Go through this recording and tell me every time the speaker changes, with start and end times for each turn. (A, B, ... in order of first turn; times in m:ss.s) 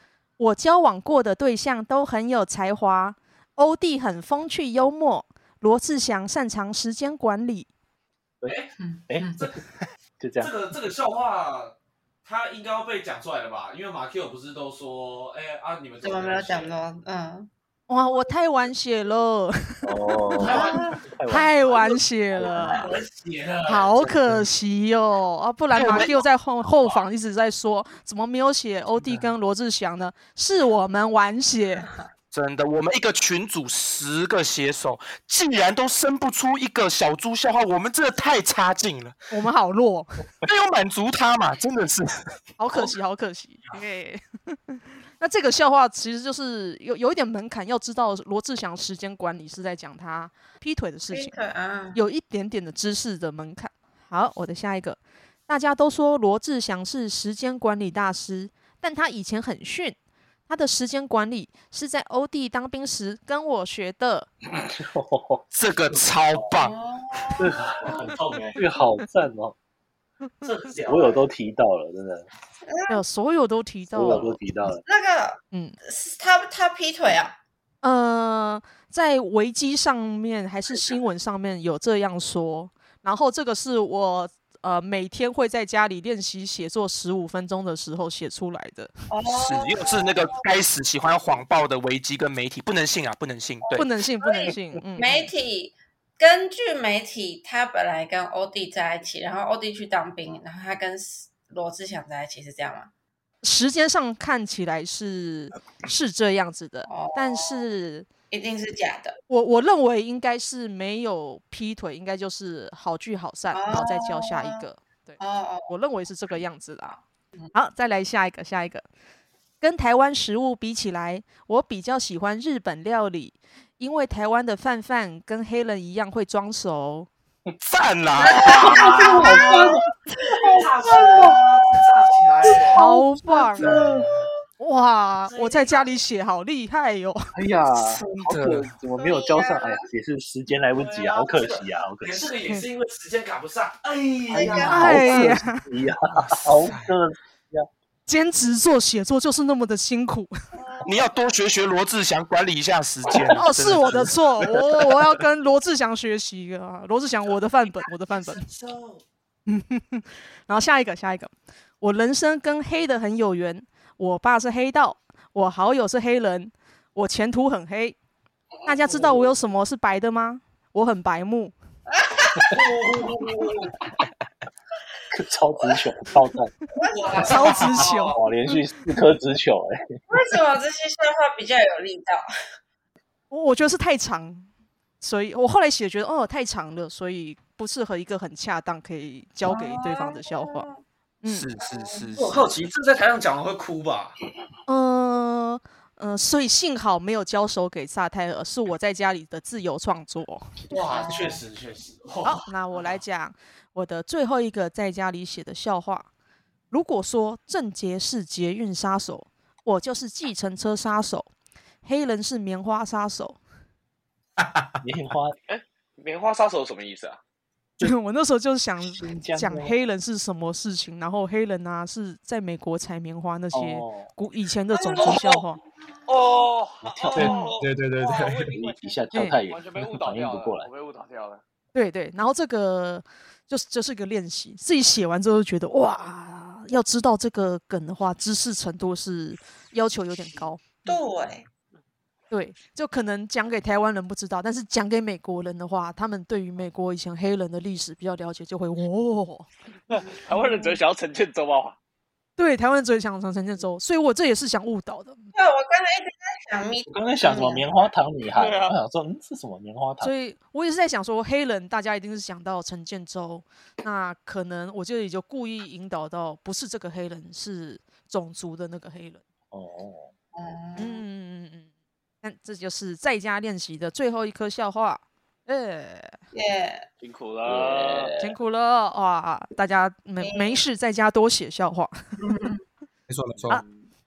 0:00.4-0:07.7 A
0:08.4-0:09.4 B
0:08.8-0:09.4 C
0:10.2-0:10.5 B
0:10.4-0:16.8 D
0:16.0-0:17.5 C
0:17.9-0:19.8 A
0:19.8-0:22.9 B
0:20.3-0:21.0 D
0:20.5-0:21.0 C
0:21.3-0:22.9 A
0:22.5-0:23.9 D
0:23.6-0:31.9 A
0:25.7-0:26.1 E
0:32.3-0:39.2 E
0:39.3-0:40.1 A
0:40.4-0:42.3 E
0:42.6-0:51.3 A
0:51.1-0:52.0 C
0:51.9-1:00.0 A
1:00.5-1:04.3 A
1:04.6-1:05.4 B
1:05.5-1:06.7 E
1:06.6-1:07.6 C
1:07.4-1:09.5 B
1:07.5-1:08.6 D
1:10.4-1:11.2 D
1:10.8-1:12.3 B
1:12.6-1:13.0 C
1:12.9-1:14.4 A
1:13.9-1:14.8 B
1:14.6-1:17.3 C
1:15.5-1:15.8 A
1:17.8-1:28.9 A
1:29.1-1:30.4 C
1:29.3-1:33.8 E
1:33.6-1:42.9 C
1:33.7-1:35.3 A
1:43.4-1:48.1 A
1:46.9-1:47.6 C
1:48.3-1:49.2 C
1:49.3-1:57.0 A
1:53.5-1:54.6 C
1:55.2-1:55.7 C
1:57.5-1:58.8 A
1:59.6-2:07.1 A
2:07.6-2:09.0 E
2:08.2-2:11.3 C
2:08.4-2:09.6 D
2:08.5-2:09.8 B
2:10.5-2:12.8 D
2:10.5-2:11.4 B
2:12.7-2:13.8 A
2:13.6-2:13.9 E
2:13.6-2:14.1 B
2:14.6-2:17.3 A
2:15.3-2:15.8 D
2:17.3-2:22.2 B
2:17.8-2:18.7 E
2:18.9-2:19.8 C
2:20.7-2:24.9 D
2:24.3-2:27.7 B
2:24.3-2:25.1 C
2:24.7-2:25.6 A
2:26.1-2:26.9 E
2:28.1-2:30.3 A
2:30.8-2:34.6 E
2:33.3-2:38.4 A
2:38.2-2:39.0 D
2:39.5-2:48.0 A
2:48.6-2:51.5 A
2:48.9-2:49.3 B
2:51.9-2:52.6 C
2:52.4-2:53.8 D
2:55.1-2:56.5 B
2:56.8-2:57.5 C
2:56.8-2:58.2 D
2:57.2-2:58.2 A
2:57.4-2:59.8 B
3:00.1-3:02.2 C
3:03.3-3:04.5 A
3:05.0-3:10.7 A
3:09.4-3:10.8 C
3:11.2-3:11.5 A
3:11.3-3:12.5 E
3:11.7-3:12.1 C
3:12.2-3:14.2 D
3:14.7-3:20.5 A
3:20.7-3:22.9 D
3:20.7-3:21.4 C
3:22.2-3:26.1 A
3:26.7-3:31.3 A
3:31.8-3:33.4 A
3:34.4-3:34.8 E
3:34.8-3:35.4 B
3:35.5-3:37.2 F
3:37.8-3:45.6 A
3:38.9-3:39.8 B
3:43.5-3:44.1 B
3:44.8-3:45.5 F
3:46.1-3:51.4 F
3:46.8-3:47.4 B
3:47.1-3:48.5 E
3:47.2-3:47.5 A
3:48.5-3:50.7 B
3:49.1-3:49.4 A
3:51.7-4:01.0 A
4:00.8-4:01.4 C
4:02.3-4:09.5 A
4:09.9-4:11.8 F
4:10.3-4:10.8 C
4:12.4-4:15.2 A
4:15.3-4:17.6 C
4:16.9-4:20.1 B
4:18.3-4:18.8 F
4:20.0-4:29.2 A
4:29.5-4:30.1 B
4:30.3-4:31.0 C
4:30.8-4:31.7 A
4:32.2-4:36.2 A
4:36.3-4:36.9 C
4:37.0-4:38.1 F
4:37.4-4:38.2 B
4:38.2-4:41.9 A
4:40.2-4:40.6 C
4:42.2-4:42.6 C
4:43.1-4:43.6 E
4:43.5-4:43.8 F